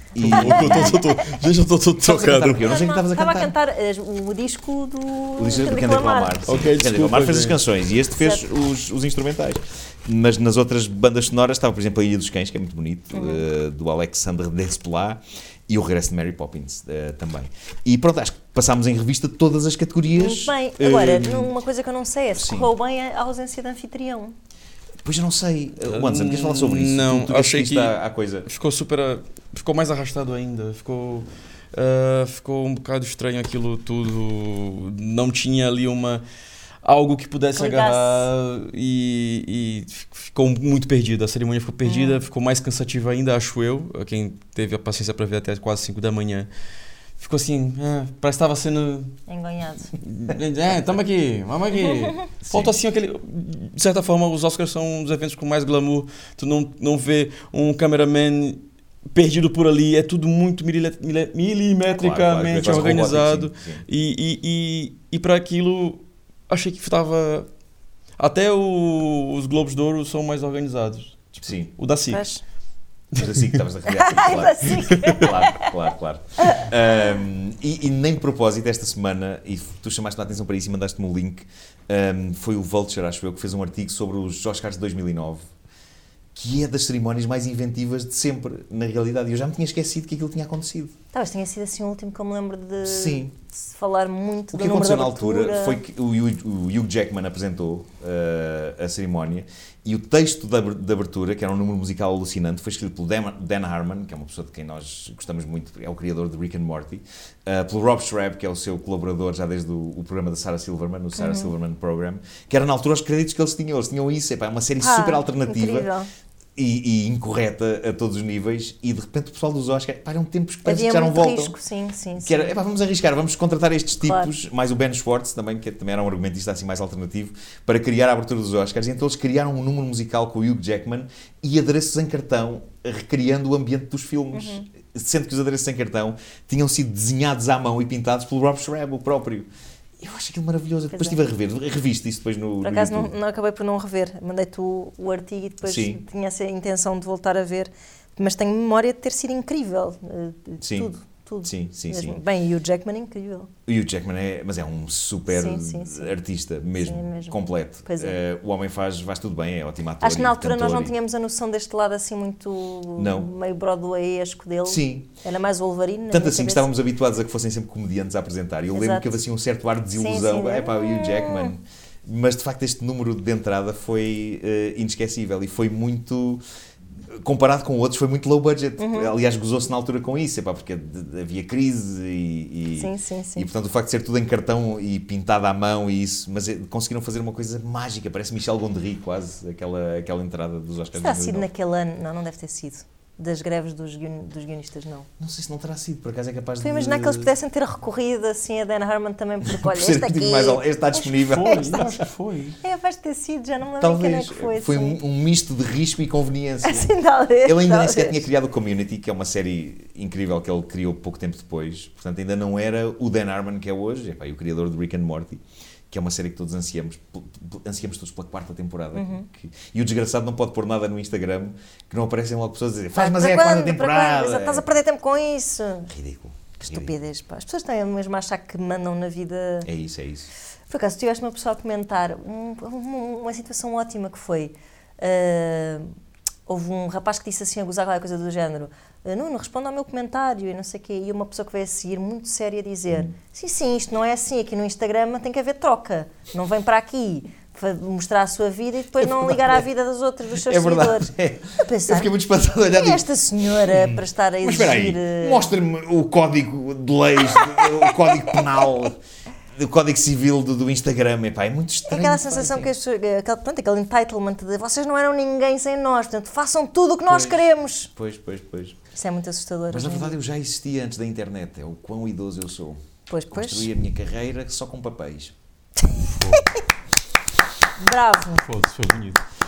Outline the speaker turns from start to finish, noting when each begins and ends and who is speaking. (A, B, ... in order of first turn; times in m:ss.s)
0:00.1-0:01.0 A
0:00.2-0:02.7 B
0:00.2-0:01.4 C
0:02.0-0:03.5 A
0:02.6-0:06.4 C
0:05.4-0:21.5 A
0:06.4-0:07.6 B
0:08.2-0:08.4 C
0:13.1-0:13.4 C
0:20.2-0:24.3 C
0:22.4-0:22.7 A
0:25.0-0:28.5 A
0:25.8-0:36.2 B
0:36.8-0:46.5 B
0:37.5-0:38.3 C
0:41.8-0:42.2 C
0:47.2-0:49.2 B
0:49.3-0:49.9 C
0:50.0-1:07.5 B
0:51.7-0:52.3 C
0:52.4-0:52.7 A
1:01.9-1:03.8 A
1:08.2-1:12.4 B
1:11.4-1:11.7 A
1:12.1-1:12.4 C
1:13.1-1:13.6 B
1:13.1-1:25.4 A
1:13.9-1:15.7 C
1:14.7-1:15.3 B
1:26.3-1:30.9 A
1:31.1-1:35.8 C
1:32.8-1:33.3 A
1:34.5-1:55.9 A
1:51.2-1:51.5 C
1:54.8-1:56.1 C
1:56.6-2:01.6 A
2:00.6-2:02.5 C
2:02.2-2:19.5 A
2:04.0-2:04.3 C
2:14.3-2:14.7 C
2:20.0-2:23.1 A
2:20.9-2:21.3 C
2:22.6-2:33.5 C
2:25.6-2:26.0 A
2:30.6-2:30.9 A
2:31.4-2:32.2 A
2:33.7-2:40.9 A
2:35.3-2:36.1 C
2:36.8-2:38.2 C
2:40.0-2:46.7 C
2:43.0-2:43.3 A
2:44.6-2:45.1 A
2:46.1-2:56.4 A
2:48.7-2:49.2 C
2:49.9-2:51.5 C
2:57.1-3:11.5 A
2:58.8-2:59.1 C
3:02.7-3:03.5 C
3:10.9-3:15.1 C
3:15.2-3:17.3 A
3:16.6-3:21.9 C
3:19.4-3:21.9 A
3:21.2-3:22.6 B
3:22.6-3:25.0 C
3:23.8-3:44.6 A
3:26.6-3:28.2 C
3:38.9-3:39.3 C
3:43.0-3:45.9 C
3:45.9-3:46.9 A
3:46.6-3:49.7 C
3:49.6-3:50.3 A
3:50.7-3:55.9 C
3:56.5-4:12.1 C
4:09.0-4:09.6 A
4:10.4-4:13.0 A
4:12.6-4:15.5 C
4:13.6-4:19.0 A
4:19.5-4:22.7 A
4:21.9-4:27.9 C
4:27.1-4:28.8 A
4:28.9-4:30.2 C
4:29.7-4:32.8 A
4:33.1-4:33.7 C
4:33.3-4:35.3 A
4:36.1-4:36.4 B
4:37.8-4:38.4 C
4:38.2-4:39.2 B